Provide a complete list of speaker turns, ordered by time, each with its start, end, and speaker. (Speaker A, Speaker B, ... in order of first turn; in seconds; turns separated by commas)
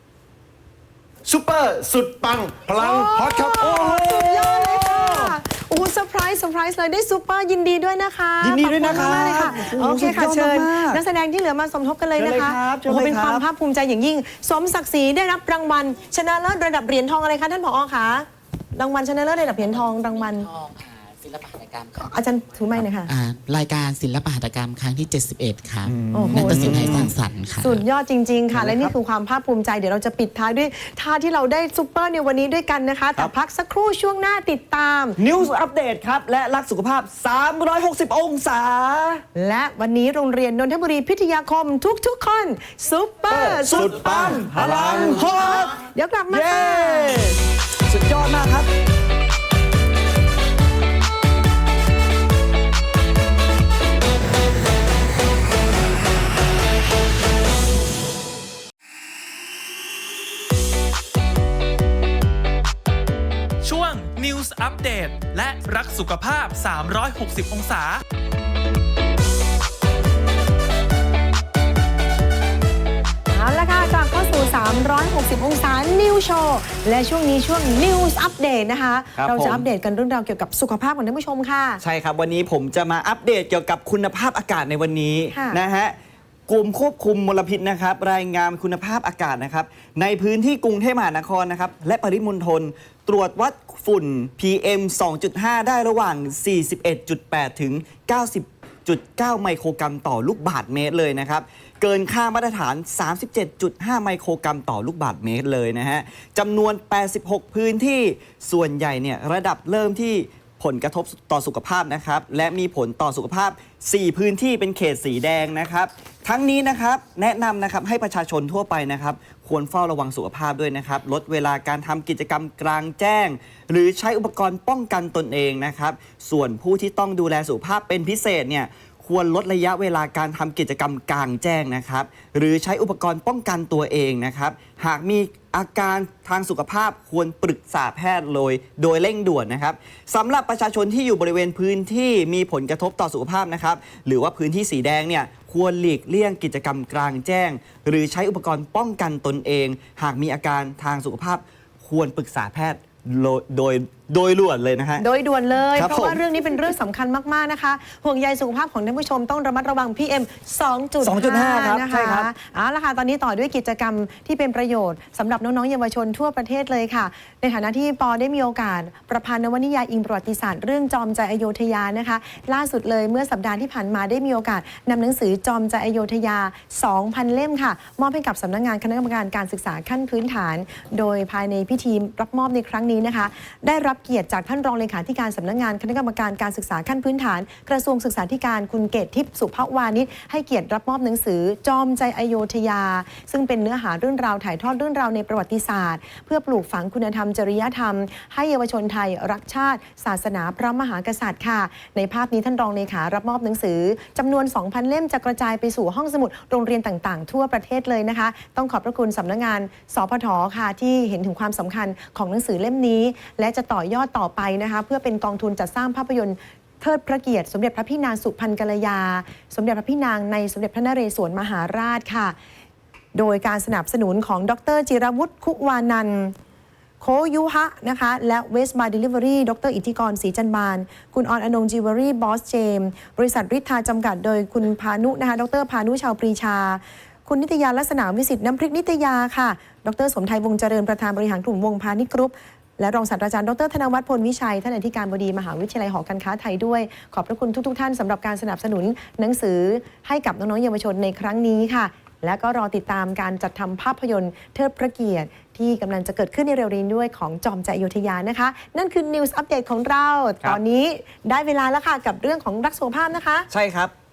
Speaker A: 1.2-3.7, Speaker B: 2.8-20.5, Speaker C: 3.6-5.3, Speaker C: 8.4-11.0, Speaker C: 12.2-13.4, Speaker D: 19.5-22.2, Speaker B: 22.0-23.1, Speaker D: 22.8-27.8, Speaker C: 25.9-27.1, Speaker B: 26.1-27.0, Speaker B: 27.6-35.2, Speaker C: 28.5-28.9, Speaker C: 35.2-39.2, Speaker B: 39.4-44.4, Speaker C: 43.3-48.7, Speaker A: 43.9-45.2, Speaker B: 45.1-47.3, Speaker E: 63.6-68.0, Speaker B: 73.3-81.8, Speaker C: 79.2-79.6, Speaker C: 81.8-86.0, Speaker B: 85.3-85.6, Speaker C: 86.5-155.0, Speaker B: 155.0-222.3, Speaker C: 155.8-156.2, Speaker C: 161.0-162.3, Speaker B: 223.1-226.3, Speaker B: 227.0-263.5, Speaker C: 263.5-263.9